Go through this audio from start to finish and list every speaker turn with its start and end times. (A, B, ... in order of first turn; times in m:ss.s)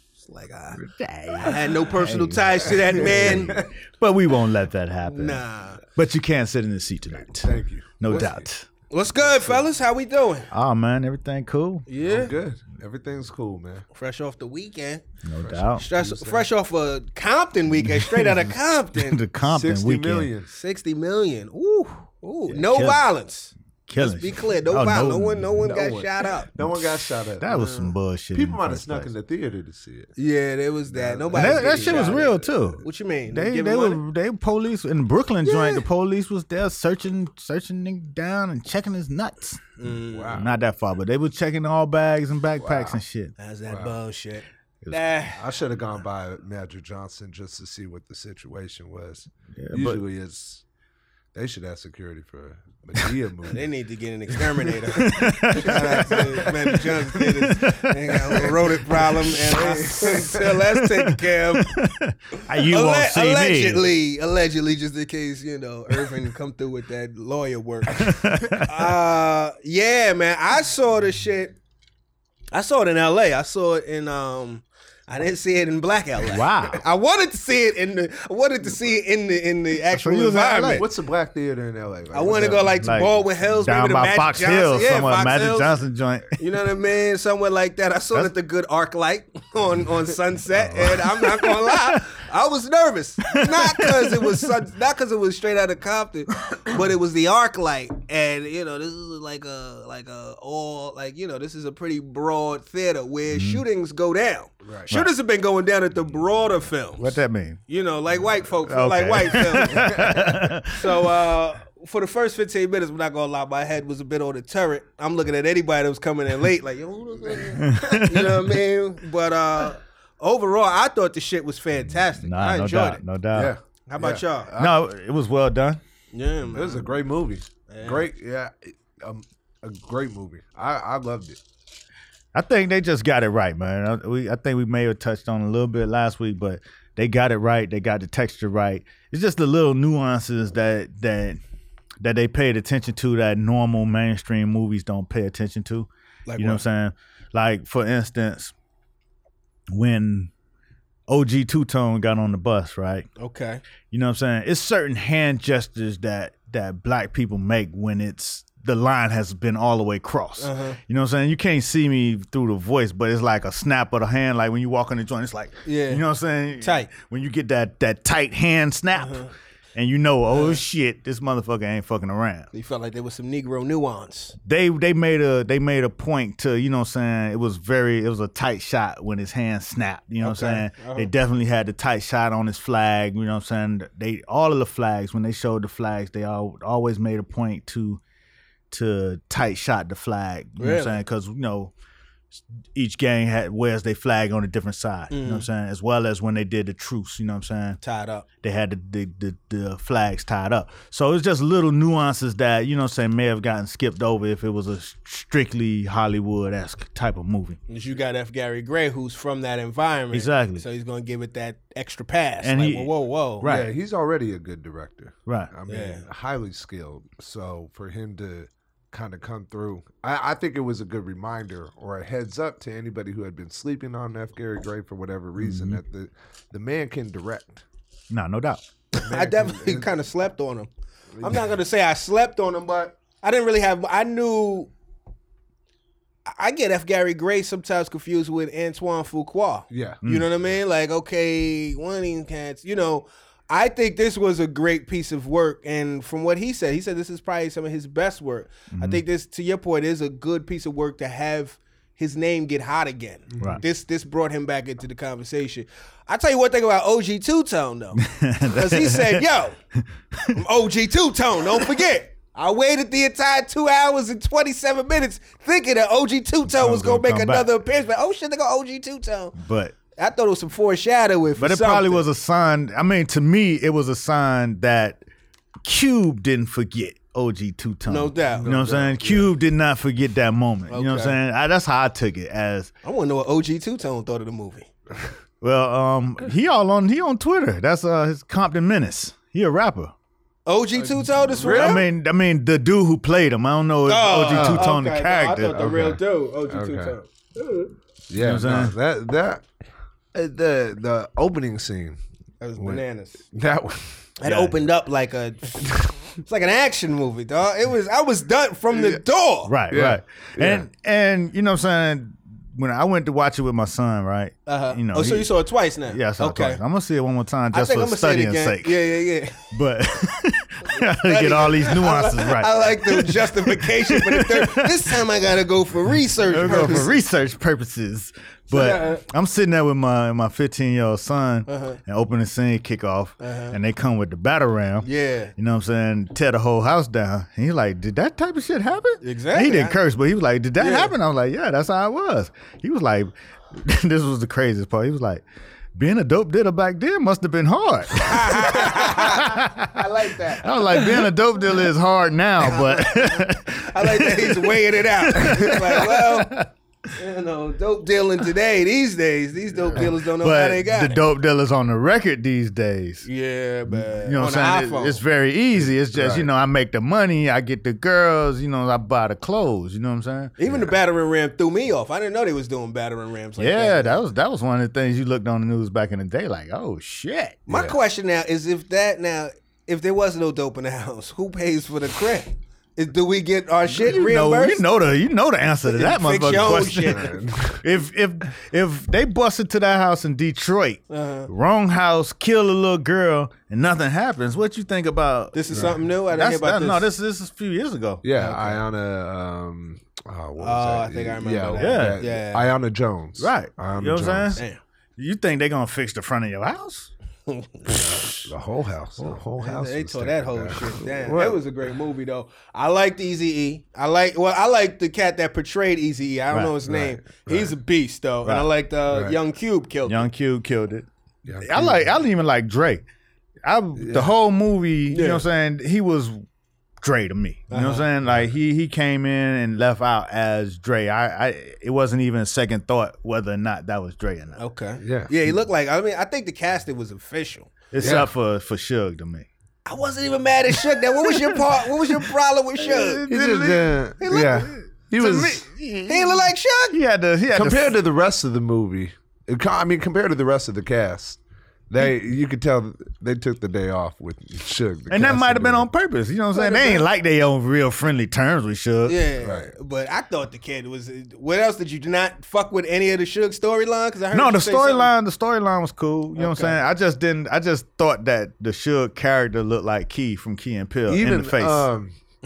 0:00.2-0:00.8 A
0:00.8-0:08.6 B
0:01.4-0:03.7 A
0:03.0-0:03.7 C
0:05.0-0:05.8 A
0:07.3-0:08.5 C
0:08.9-0:10.5 A
0:09.2-0:09.7 C
0:10.5-0:11.9 B
0:11.9-0:12.3 A
0:12.0-0:13.8 C
0:13.9-0:15.0 A
0:15.2-0:15.9 B
0:15.4-0:16.5 C
0:15.8-0:19.2 A
0:17.7-0:20.3 B
0:19.4-0:20.5 C
0:20.5-0:26.5 A
0:22.5-0:23.1 B
0:23.9-0:25.7 B
0:25.6-0:27.5 C
0:27.4-0:29.1 B
0:27.5-0:27.9 A
0:28.3-0:30.1 C
0:30.2-0:34.0 A
0:30.9-0:32.5 C
0:31.3-0:39.7 B
0:35.4-0:35.8 A
0:39.8-0:40.4 A
0:40.1-0:40.5 C
0:40.3-0:43.3 B
0:42.6-0:43.0 C
0:43.4-0:45.4 A
0:43.7-0:44.0 C
0:44.8-0:45.2 B
0:45.3-0:50.6 C
0:49.6-0:50.0 B
0:51.3-0:53.6 C
0:53.5-1:01.8 A
0:54.8-1:03.9 B
0:55.5-0:56.4 C
0:59.3-1:00.4 C
1:02.5-1:11.6 A
1:07.9-1:08.9 B
1:12.5-1:20.8 A
1:16.2-1:16.8 B
1:19.9-1:20.8 B
1:20.7-1:22.7 C
1:22.1-1:25.7 A
1:22.8-1:26.4 B
1:26.4-2:03.0 A
1:30.6-1:31.0 C
1:30.8-1:32.0 B
1:33.5-1:34.5 B
1:43.3-1:43.6 B
1:47.0-1:47.6 B
1:48.6-1:51.2 B
1:49.8-1:50.2 C
1:57.6-1:58.5 B
2:02.2-2:03.5 B
2:03.3-2:04.8 C
2:03.9-2:04.5 A
2:04.6-2:05.8 B
2:06.1-2:06.9 A
2:06.5-2:11.4 C
2:07.7-2:08.1 A
2:12.3-2:21.4 B
2:22.0-2:28.5 B
2:26.3-2:26.6 A
2:29.7-2:30.3 B
2:31.1-2:33.1 B
2:33.2-2:33.6 A
2:33.9-2:52.5 B
2:40.4-2:40.8 A
2:45.6-2:46.0 A
2:46.6-2:46.9 A
2:49.0-2:49.3 A
2:50.3-2:50.6 A
2:52.5-2:54.4 A
2:54.4-3:08.0 B
3:00.2-3:01.1 A
3:08.7-3:11.7 B
3:10.6-3:11.0 A
3:12.3-3:17.8 B
3:15.1-3:15.5 A
3:17.8-3:18.2 A
3:18.4-3:27.6 B
3:27.7-3:33.5 A
3:30.1-3:30.6 B
3:32.4-3:33.7 B
3:33.4-3:47.6 C
3:35.3-3:35.5 B
3:35.7-3:36.0 A
3:45.4-3:45.8 B
3:48.1-3:48.6 B
3:48.9-3:50.7 A
3:49.0-3:49.9 C
3:51.2-3:51.5 C
3:51.2-3:54.7 A
3:56.3-4:19.6 A
3:59.7-4:00.0 C
4:08.7-4:09.0 B
4:13.4-4:13.6 C
4:18.0-4:19.2 B
4:20.3-4:29.4 A
4:26.5-4:27.5 B
4:29.4-4:29.8 B
4:29.9-4:32.0 A
4:31.4-4:35.0 B
4:35.7-4:42.7 B
4:37.9-4:39.3 A
4:40.7-4:41.2 A
4:42.8-4:44.7 A
4:45.4-4:49.9 B
4:50.5-4:51.9 A
4:51.2-4:55.9 B
4:51.3-4:51.9 C
4:53.9-4:57.7 A
4:54.3-4:54.7 C
4:55.5-4:57.0 C
4:58.1-4:59.5 C
4:58.2-4:58.7 B
5:00.1-5:02.0 C
5:02.4-5:03.2 A
5:02.6-5:04.0 C
5:04.2-5:09.5 A
5:04.2-5:04.6 B
5:08.7-5:09.0 C
5:09.4-5:15.3 B
5:09.7-5:10.7 C
5:14.5-5:16.6 A
5:15.9-5:25.0 B
5:17.5-5:19.5 A
5:20.6-5:27.0 A
5:26.2-5:45.2 B
5:26.4-5:26.9 C
5:28.5-5:29.0 A
5:31.5-5:31.8 A
5:33.2-5:33.6 A
5:34.8-5:35.3 A
5:39.0-5:39.8 A
5:40.6-5:40.9 A
5:45.8-5:49.9 B
5:48.0-5:51.0 A
5:50.4-5:56.5 B
5:52.4-6:01.0 A
5:59.8-6:03.1 B
6:03.0-6:05.0 A
6:03.7-6:10.3 B
6:05.9-6:06.3 C
6:10.4-6:14.0 A
6:10.5-6:10.7 C
6:13.4-6:17.4 B
6:17.5-6:24.6 A
6:17.5-6:17.8 C
6:23.7-6:38.1 B
6:25.7-6:27.1 A
6:26.8-6:27.6 C
6:30.9-6:31.3 A
6:35.3-6:36.9 A
6:35.5-6:35.8 C
6:38.0-6:44.4 C
6:38.2-6:38.5 A
6:40.4-6:42.5 A
6:41.6-6:42.0 B
6:43.2-6:44.4 B
6:45.0-6:46.9 B
6:47.3-6:47.8 A
6:47.7-6:51.4 C
6:49.4-7:00.1 A
6:56.7-6:57.5 C
6:58.2-6:58.5 B
6:58.9-6:59.2 C
6:59.9-7:02.8 B
7:01.3-7:01.9 C
7:03.4-7:06.2 B
7:03.8-7:04.1 C
7:04.9-7:05.2 A
7:06.8-7:14.4 B
7:07.5-7:07.9 A
7:14.4-7:18.0 A
7:14.8-7:15.3 C
7:17.7-7:19.3 B
7:17.8-7:18.1 C
7:19.7-7:23.1 A
7:21.0-7:23.8 B
7:23.1-7:25.4 C
7:24.0-7:24.5 A
7:25.0-7:27.8 B
7:25.9-7:26.8 A
7:27.3-7:35.7 C
7:34.9-7:39.0 B
7:36.3-7:36.8 A
7:38.9-7:44.9 A
7:39.2-7:39.5 C
7:44.1-7:51.7 B
7:46.2-7:46.6 A
7:50.9-7:52.0 C